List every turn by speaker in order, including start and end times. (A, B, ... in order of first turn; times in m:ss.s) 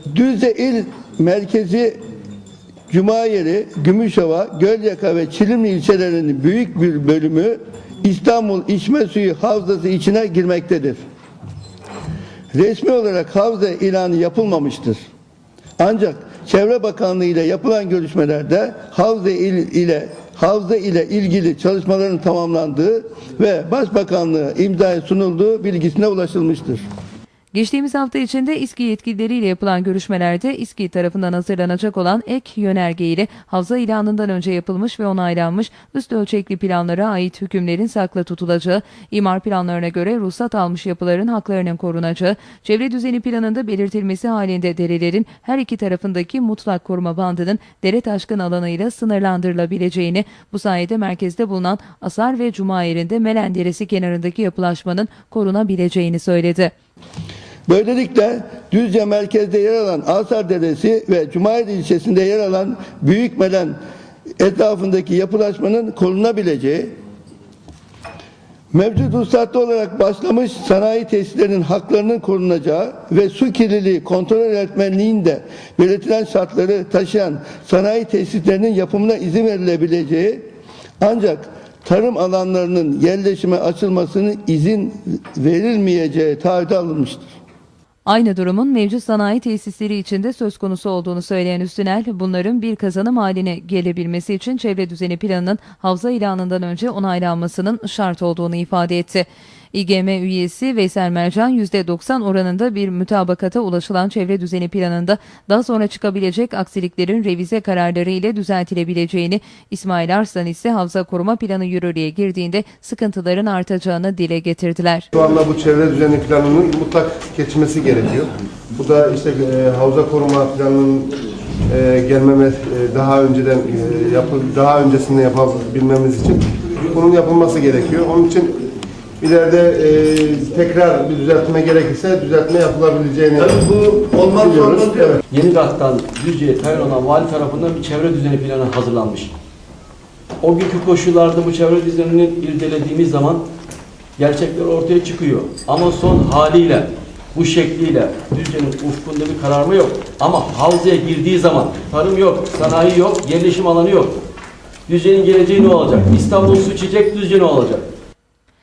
0:00.1-0:02.0 A
0:02.9-0:11.0 A
0:12.5-0:15.0 A
0:15.8-0:26.8 A
0:27.5-0:56.7 B
0:57.7-1:03.8 A
1:04.4-1:06.9 A
1:08.7-1:20.4 A
1:21.0-1:27.2 A
1:28.1-1:55.1 B
1:55.1-2:08.7 C
2:09.2-2:13.6 C
2:13.4-2:15.2 A
2:14.3-2:15.2 C
2:15.3-2:19.3 D
2:20.4-2:23.5 D
2:24.2-2:34.2 D
2:34.9-2:37.9 D